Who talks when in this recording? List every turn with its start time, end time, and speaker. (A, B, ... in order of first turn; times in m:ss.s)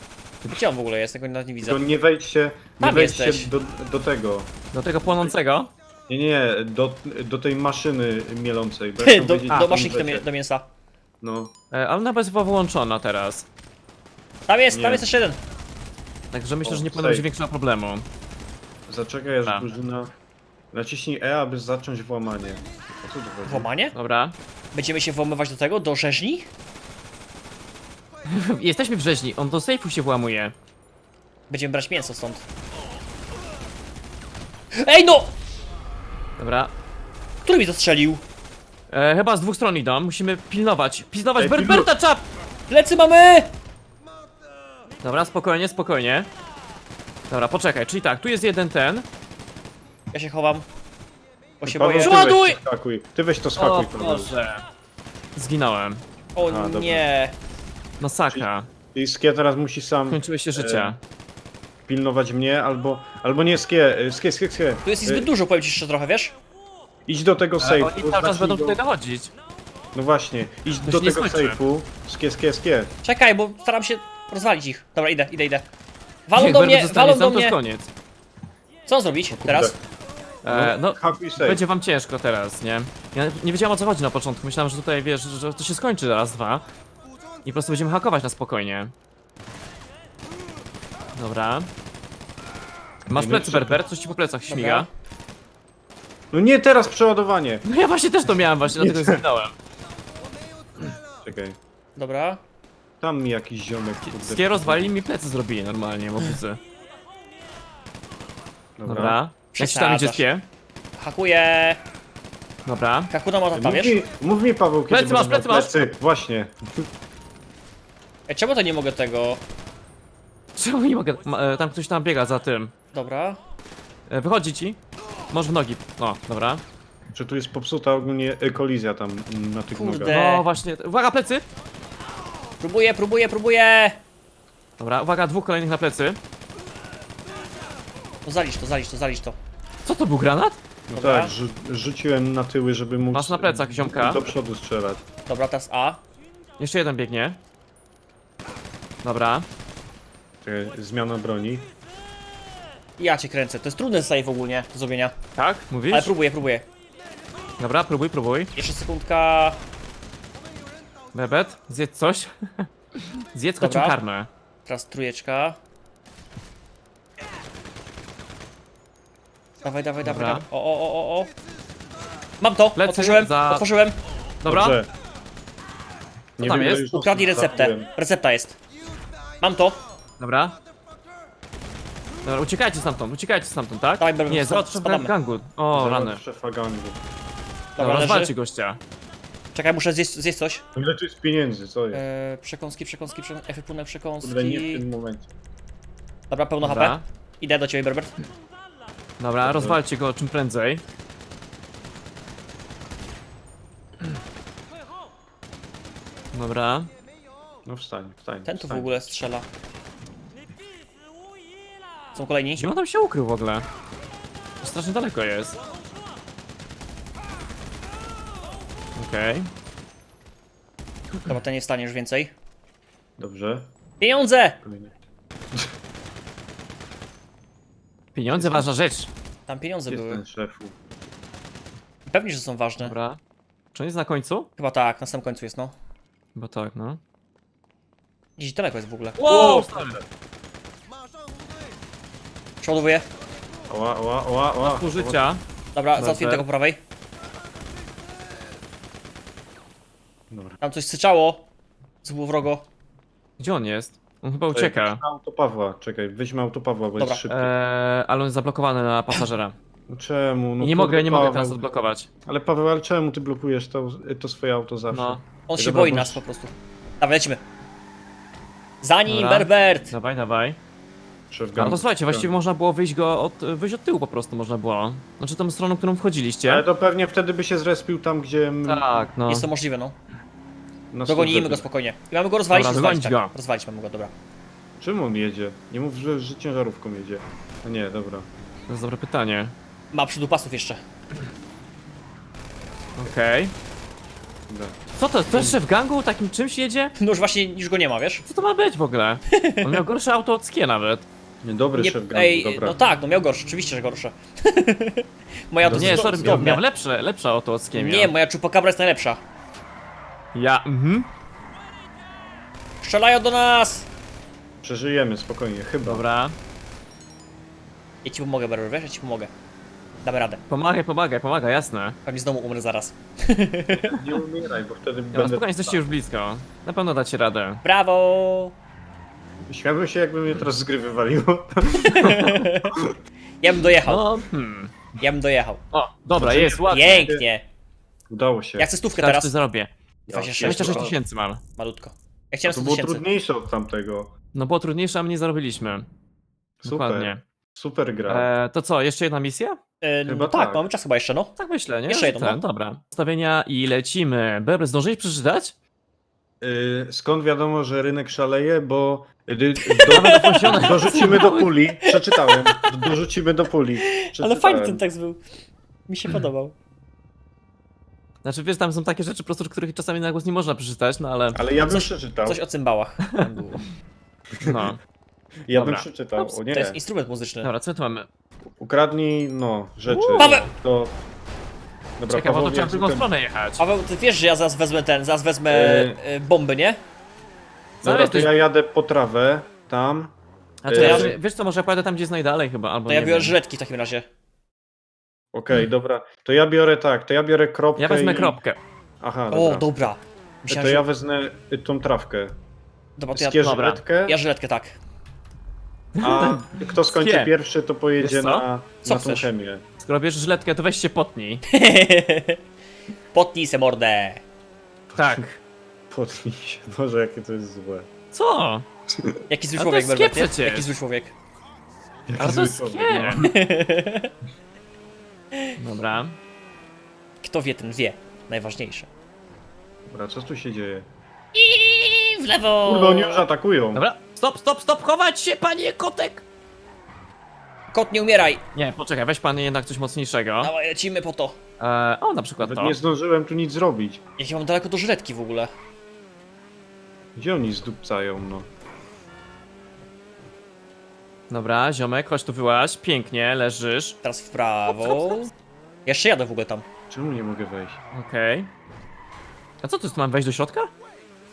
0:00.4-0:01.8 A
0:01.6-0:04.5 B
0:02.8-0:03.5 A
0:04.7-0:05.7 C
0:06.1-0:10.2 B
0:09.0-0:10.7 A
0:11.2-0:11.5 B
0:11.7-0:13.5 C
0:14.5-0:15.4 A
0:14.7-0:15.0 B
0:16.3-0:18.0 C
0:16.6-0:17.2 B
0:18.9-0:20.1 B
0:20.7-0:23.7 B
0:23.5-0:24.0 A
0:23.9-0:24.4 C
0:24.7-0:26.5 A
0:28.3-0:30.5 C
0:31.5-0:32.5 A
0:34.7-0:35.3 A
0:36.4-0:36.7 C
0:37.4-0:38.2 A
0:38.9-0:42.2 C
0:41.4-0:41.9 B
0:42.7-0:43.5 A
0:45.0-0:46.3 C
0:47.3-0:49.0 C
0:50.1-0:50.6 A
0:51.6-0:52.3 A
0:51.6-0:54.3 B
0:52.0-0:52.6 C
0:53.6-0:54.6 C
0:55.4-0:56.0 C
0:56.4-0:57.4 A
0:56.4-0:57.0 B
0:58.0-0:58.7 C
0:58.3-1:01.0 B
1:00.1-1:01.0 C
1:01.9-1:05.3 B
1:04.8-1:06.4 A
1:07.1-1:08.8 B
1:07.6-1:09.3 C
1:09.9-1:12.9 B
1:10.8-1:11.6 C
1:13.0-1:15.7 A
1:16.3-1:17.6 A
1:16.4-1:17.9 C
1:18.9-1:19.8 A
1:19.3-1:19.8 B
1:20.4-1:26.6 C
1:20.4-1:21.6 B
1:27.4-1:28.9 C
1:31.2-1:31.7 C
1:33.1-1:34.9 C
1:33.2-1:33.8 B
1:34.5-1:34.9 A
1:36.3-1:37.6 B
1:37.7-1:39.5 C
1:38.8-1:39.2 B
1:41.2-1:41.6 B
1:42.0-1:42.4 A
1:43.0-1:44.9 B
1:44.0-1:46.6 C
1:48.8-1:49.2 B
1:48.9-1:50.5 C
1:49.5-1:50.2 A
1:51.0-1:51.8 A
1:52.7-1:53.1 C
1:53.1-1:54.0 A
1:53.6-1:56.6 B
1:54.9-1:55.8 C
1:58.3-1:59.4 A
2:00.6-2:02.7 C
2:02.9-2:03.4 A
2:04.1-2:04.8 C
2:05.3-2:06.6 C
2:07.1-2:10.2 B
2:09.7-2:10.4 A
2:10.1-2:11.4 C
2:12.6-2:14.0 A
2:14.8-2:16.2 C
2:18.2-2:19.4 A
2:19.8-2:20.6 C
2:20.9-2:25.0 B
2:20.9-2:21.3 A
2:23.1-2:24.2 C
2:25.3-2:26.0 A
2:26.6-2:27.4 C
2:29.0-2:29.5 C
2:30.4-2:31.7 B
2:33.0-2:35.2 A
2:35.4-2:36.1 C
2:35.9-2:36.7 A
2:37.6-2:38.6 C
2:38.6-2:39.6 A
2:41.1-2:44.3 C
2:43.6-2:44.0 A
2:44.7-2:45.6 A
2:49.6-2:51.3 A
2:50.0-2:50.5 C
2:52.4-2:54.0 A
2:52.8-2:53.6 C
2:54.4-2:54.8 C
2:54.4-2:54.9 B
2:56.4-2:57.9 B
2:56.4-2:56.9 C
2:56.5-2:58.6 A
2:59.4-2:59.8 A
3:00.2-3:00.6 C
3:02.2-3:06.2 C
3:04.0-3:05.1 A
3:05.7-3:07.0 B
3:07.8-3:08.3 A
3:07.8-3:08.8 C
3:09.5-3:10.6 A
3:10.7-3:12.0 B
3:11.9-3:14.8 A
3:14.2-3:15.3 B
3:16.3-3:18.1 A
3:16.6-3:17.0 C
3:19.2-3:20.8 C
3:19.4-3:19.8 B
3:26.3-3:26.9 C
3:27.7-3:29.0 B
3:28.4-3:29.5 A
3:32.2-3:32.7 A
3:32.6-3:33.7 C
3:34.6-3:35.6 C
3:39.0-3:39.5 C
3:41.2-3:42.3 A
3:43.2-3:43.7 B
3:44.0-3:44.6 A
3:44.6-3:44.9 B
3:48.1-3:49.1 C
3:48.3-3:48.7 B
3:49.5-3:50.2 A
3:49.9-3:50.7 B
3:52.1-3:53.0 A
3:52.8-3:53.2 C
3:53.7-3:54.5 C
3:54.6-3:55.7 A
3:56.4-3:57.0 C
3:58.4-3:59.7 A
3:59.2-4:00.0 C
3:59.3-4:00.0 B
4:02.6-4:03.0 A
4:03.7-4:05.2 B
4:04.6-4:05.4 C
4:05.8-4:06.8 A
4:06.0-4:06.5 C
4:10.3-4:10.6 B
4:10.6-4:11.5 A
4:12.0-4:12.6 A
4:13.4-4:15.0 C
4:14.5-4:17.5 B
4:17.0-4:17.2 A
4:17.3-4:19.6 C
4:19.9-4:21.6 B
4:20.6-4:22.1 C
4:22.3-4:26.2 B
4:24.9-4:25.2 C
4:25.5-4:27.4 A
4:28.8-4:29.9 A
4:29.1-4:30.6 C
4:31.3-4:32.4 B
4:31.6-4:36.6 C
4:36.5-4:38.9 B
4:38.7-4:39.5 C
4:39.3-4:40.0 A
4:40.9-4:41.7 B
4:41.1-4:44.1 A
4:42.5-4:43.3 C
4:44.8-4:48.3 B
4:48.7-4:49.5 C
4:49.9-4:50.8 A
4:53.0-4:53.5 C
4:54.5-4:54.8 B
4:55.0-4:57.0 C
4:55.3-4:55.6 B
4:57.0-4:58.3 A
4:58.3-5:01.1 C
4:59.3-4:59.8 A
5:01.4-5:02.8 B
5:01.8-5:06.6 A
5:05.6-5:06.6 B
5:05.7-5:08.1 C
5:07.7-5:09.2 A
5:10.3-5:11.1 C
5:12.8-5:13.9 A
5:14.6-5:16.0 B
5:15.8-5:16.4 C
5:18.0-5:19.3 A
5:20.0-5:20.4 A
5:20.5-5:22.0 C
5:22.1-5:24.1 A
5:23.7-5:25.8 B
5:25.1-5:27.6 C
5:27.6-5:28.5 A
5:29.5-5:33.0 B
5:31.8-5:32.8 A
5:33.4-5:34.1 A
5:33.9-5:34.7 C
5:35.0-5:35.6 A
5:35.7-5:37.1 C
5:36.2-5:37.3 B
5:36.7-5:37.4 A
5:38.1-5:38.7 B
5:38.6-5:39.3 A
5:39.0-5:39.7 C
5:40.1-5:41.0 B
5:40.1-5:40.9 A
5:40.4-5:41.4 C
5:41.6-5:43.0 A
5:42.5-5:44.1 B
5:44.3-5:45.9 C
5:46.6-5:48.3 B
5:46.6-5:47.2 C
5:48.1-5:49.6 C
5:49.8-5:51.4 A
5:50.1-5:50.7 B
5:51.4-5:55.5 C
5:51.9-5:52.4 A
5:56.4-6:04.8 B
5:59.7-6:01.3 A
5:59.9-6:01.5 C
6:01.8-6:02.7 A
6:03.9-6:05.2 A
6:05.9-6:06.6 A
6:08.2-6:11.4 C
6:11.3-6:12.4 B
6:11.6-6:13.6 A
6:14.4-6:14.7 B
6:14.4-6:14.8 C
6:15.5-6:16.8 B
6:15.5-6:15.8 C
6:16.2-6:17.5 A
6:17.4-6:18.1 C
6:18.6-6:21.0 B
6:19.9-6:20.4 C
6:20.2-6:20.5 A
6:22.0-6:23.1 B
6:22.1-6:23.6 C
6:23.6-6:26.8 A
6:25.5-6:26.0 B
6:27.8-6:28.3 C
6:27.8-6:30.2 B
6:30.6-6:33.4 C
6:30.7-6:31.2 B
6:30.7-6:31.1 A
6:32.9-6:34.0 A
6:35.3-6:38.4 B
6:37.8-6:38.6 C
6:39.0-6:39.8 B
6:39.3-6:40.8 A
6:40.5-6:42.4 B
6:43.0-6:44.8 A
6:43.2-6:44.2 B
6:43.4-6:43.8 C
6:46.0-6:47.3 C
6:46.0-6:49.6 B
6:48.0-6:48.5 C
6:48.8-6:49.3 A
6:49.8-6:51.4 C
6:51.5-6:52.4 A
6:53.1-6:54.2 A
6:54.9-6:55.3 B
6:55.0-6:55.4 C
6:55.9-6:57.9 B
6:58.1-6:58.6 C
6:58.9-6:59.2 B
6:59.3-7:01.1 A
6:59.6-7:00.7 C
7:02.1-7:03.3 B
7:02.2-7:03.2 C
7:03.2-7:04.1 A
7:05.6-7:06.2 C
7:07.2-7:08.9 A
7:09.9-7:10.9 B
7:11.4-7:13.3 A
7:12.6-7:13.8 B
7:13.8-7:16.2 C
7:17.7-7:18.4 A
7:18.6-7:20.5 C
7:20.4-7:21.4 A
7:21.6-7:22.8 C
7:22.4-7:24.0 B
7:24.2-7:25.5 A
7:27.2-7:28.5 B
7:31.3-7:34.0 C
7:34.0-7:35.3 A
7:34.8-7:35.2 C
7:35.9-7:36.6 A
7:36.9-7:37.8 B
7:37.9-7:38.5 C
7:39.6-7:40.7 C